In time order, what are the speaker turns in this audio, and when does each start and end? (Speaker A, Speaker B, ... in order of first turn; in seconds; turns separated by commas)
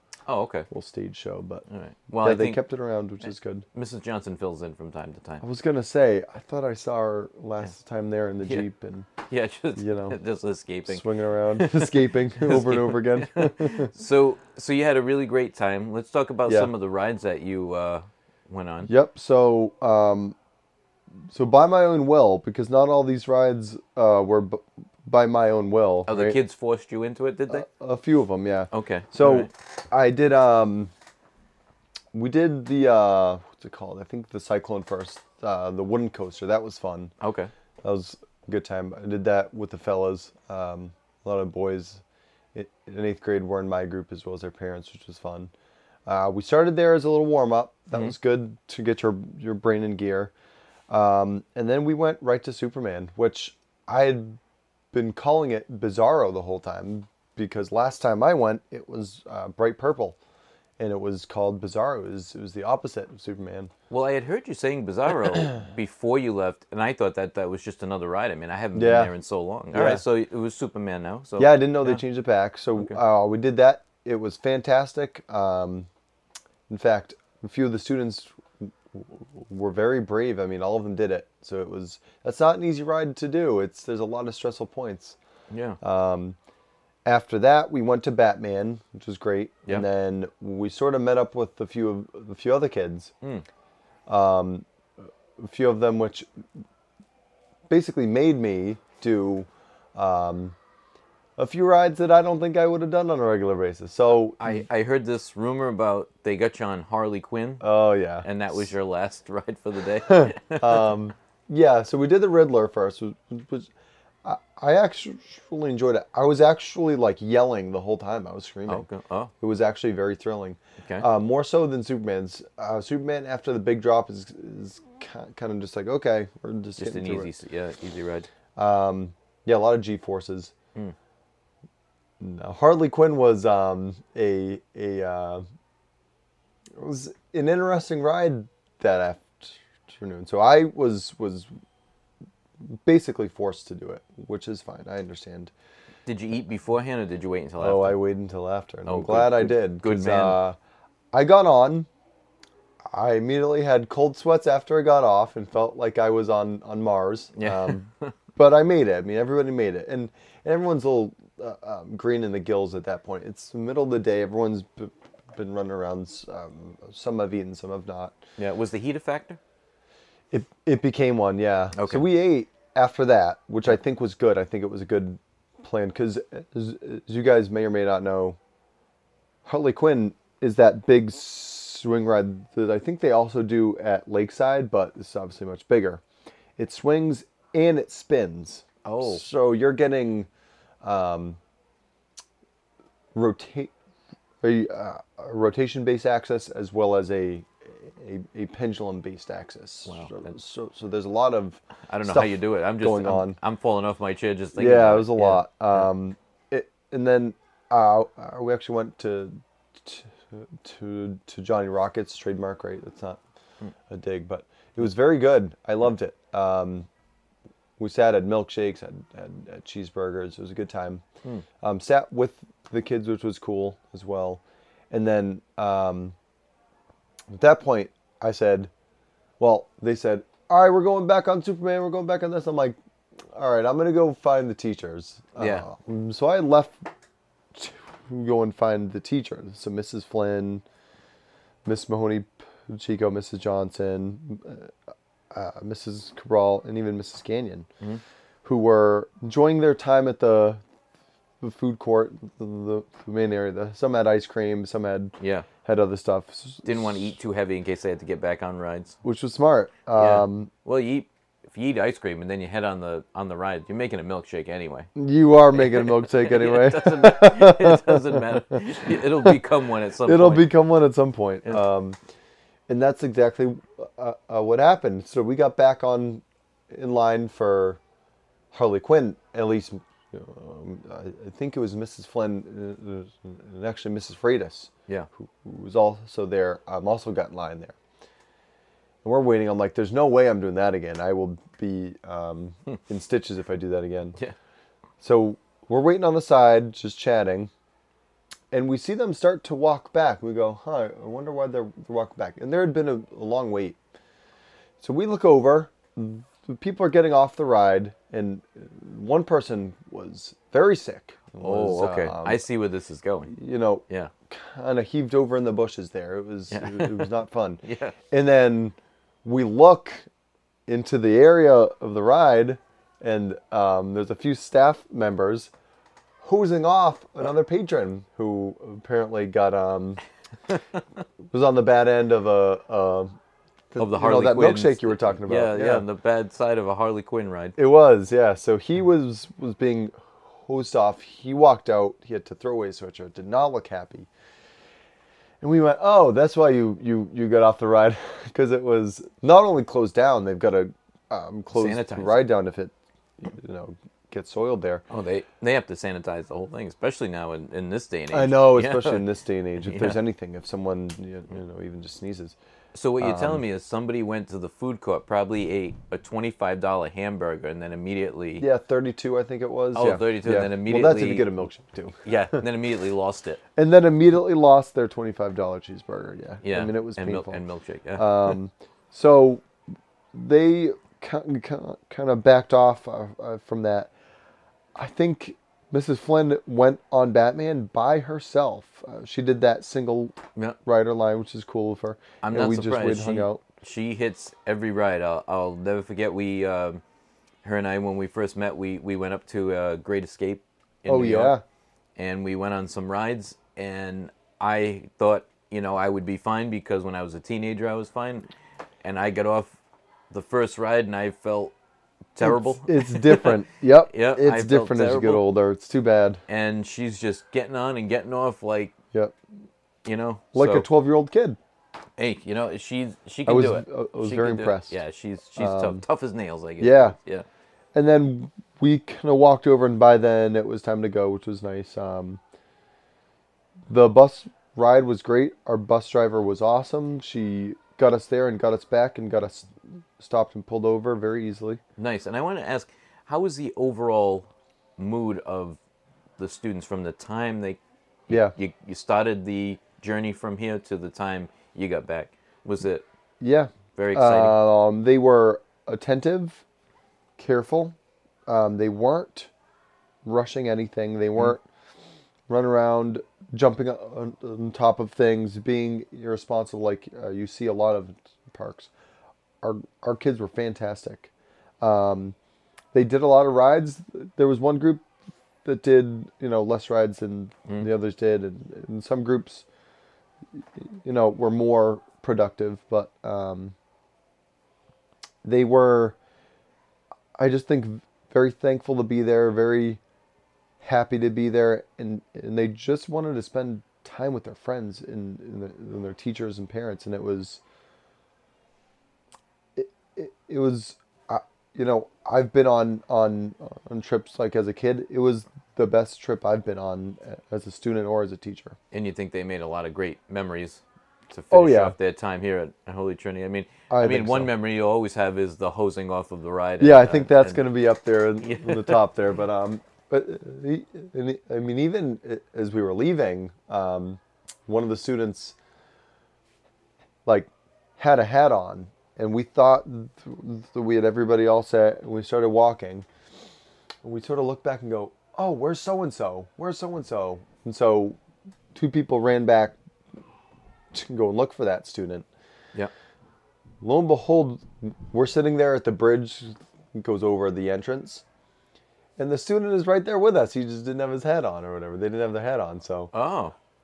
Speaker A: 0.3-0.7, Speaker B: 0.7-1.6, Speaker A: 1.7-2.6, Speaker B: 2.2-3.7, Speaker A: 3.7-5.4, Speaker B: 5.4-9.1, Speaker A: 9.3-18.9, Speaker B: 9.8-10.2, Speaker B: 10.9-13.9, Speaker B: 18.9-20.4, Speaker B: 21.3-26.4, Speaker A: 26.1-27.7, Speaker B: 27.5-30.9, Speaker A: 28.7-29.5, Speaker B: 32.1-37.1, Speaker A: 37.2-37.5, Speaker B: 37.8-42.0, Speaker B: 42.5-45.5, Speaker B: 46.1-50.3, Speaker B: 50.9-54.4, Speaker B: 54.9-60.2, Speaker B: 60.8-63.7, Speaker A: 63.9-72.0, Speaker B: 68.7-69.1, Speaker B: 69.7-70.0, Speaker B: 71.4-75.9, Speaker B: 76.7-85.2, Speaker A: 85.5-85.8, Speaker B: 85.8-86.4, Speaker B: 87.0-93.1, Speaker B: 94.1-94.7, Speaker B: 95.4-96.3, Speaker B: 97.7-100.5, Speaker B: 101.4-104.5, Speaker A: 104.4-107.6, Speaker B: 107.6-108.3, Speaker A: 108.2-110.9, Speaker B: 110.1-113.7, Speaker B: 114.2-118.9, Speaker A: 118.7-119.3, Speaker B: 119.4-127.3, Speaker A: 126.8-128.3, Speaker B: 128.6-130.5, Speaker B: 132.2-135.4, Speaker B: 136.8-141.5, Speaker B: 142.7-145.5, Speaker A: 146.1-148.0, Speaker B: 147.6-150.6, Speaker A: 148.9-150.4, Speaker B: 151.1-151.9, Speaker B: 152.9-168.2, Speaker A: 157.4-158.1, Speaker A: 168.4-169.4, Speaker B: 170.3-178.4, Speaker A: 171.8-172.1, Speaker B: 179.4-186.0, Speaker B: 186.6-190.3, Speaker A: 188.8-189.2, Speaker B: 190.8-191.4, Speaker B: 193.1-193.7, Speaker B: 194.4-203.4, Speaker A: 199.9-200.3, Speaker A: 201.9-205.9, Speaker B: 204.6-213.2, Speaker B: 213.9-216.9, Speaker B: 217.8-221.0, Speaker B: 221.6-226.2, Speaker B: 227.3-228.7, Speaker B: 229.4-232.8, Speaker B: 233.3-236.8, Speaker A: 235.4-235.7, Speaker B: 237.5-240.6, Speaker B: 241.7-244.7, Speaker B: 245.3-247.7, Speaker B: 248.4-250.6, Speaker B: 251.4-257.1, Speaker A: 255.2-255.5, Speaker A: 256.6-259.0, Speaker B: 259.0-260.5, Speaker A: 260.0-264.9, Speaker B: 265.0-269.4, Speaker A: 265.5-270.5, Speaker B: 270.0-272.0, Speaker B: 272.7-277.8, Speaker B: 278.5-287.8, Speaker B: 289.0-294.2, Speaker B: 295.0-297.5, Speaker B: 298.5-303.8, Speaker B: 304.8-312.4, Speaker A: 311.4-313.3, Speaker B: 313.3-320.1, Speaker A: 316.5-318.0, Speaker B: 320.7-325.5, Speaker B: 326.2-330.0, Speaker B: 331.3-333.2, Speaker B: 333.7-335.8, Speaker A: 333.8-337.6, Speaker B: 337.6-344.1, Speaker B: 345.4-354.8, Speaker A: 351.5-352.3, Speaker A: 354.9-359.1, Speaker B: 358.1-362.4, Speaker A: 359.6-360.0, Speaker A: 362.7-368.5, Speaker B: 363.0-363.4, Speaker B: 368.4-372.4, Speaker A: 369.7-371.3, Speaker A: 372.0-373.4, Speaker B: 373.6-377.4, Speaker A: 376.4-378.4, Speaker B: 378.0-379.4, Speaker B: 380.1-383.9, Speaker B: 384.8-393.4, Speaker A: 392.2-396.8, Speaker A: 397.4-401.4, Speaker B: 400.9-401.4, Speaker A: 402.0-408.3, Speaker A: 408.8-409.6, Speaker A: 410.1-411.5, Speaker A: 412.1-413.4, Speaker B: 412.2-416.2, Speaker A: 413.9-415.2, Speaker A: 416.3-418.8, Speaker A: 419.9-420.7, Speaker B: 420.3-421.4, Speaker A: 422.0-427.3, Speaker B: 423.3-424.8, Speaker B: 425.4-425.8, Speaker B: 426.6-427.0, Speaker B: 427.7-432.2, Speaker B: 433.7-441.6, Speaker A: 441.8-445.6, Speaker A: 446.2-452.9, Speaker B: 448.1-448.3, Speaker B: 453.2-456.4, Speaker A: 453.7-454.4, Speaker B: 457.2-457.8, Speaker B: 458.3-459.3, Speaker B: 460.1-461.4, Speaker B: 462.3-468.7, Speaker B: 469.4-471.1, Speaker B: 471.6-472.1, Speaker B: 472.7-474.9, Speaker B: 475.4-479.5, Speaker B: 480.4-483.6, Speaker B: 485.2-486.0, Speaker B: 487.2-489.8, Speaker B: 490.6-497.4, Speaker B: 499.6-508.6, Speaker A: 508.7-517.4, Speaker B: 511.3-511.8, Speaker B: 513.7-514.3, Speaker B: 516.6-525.4, Speaker A: 518.2-518.8, Speaker B: 527.1-532.9, Speaker B: 533.8-538.0, Speaker B: 538.5-539.6, Speaker B: 540.7-542.1, Speaker B: 543.6-548.0, Speaker B: 549.0-552.9, Speaker A: 552.9-553.4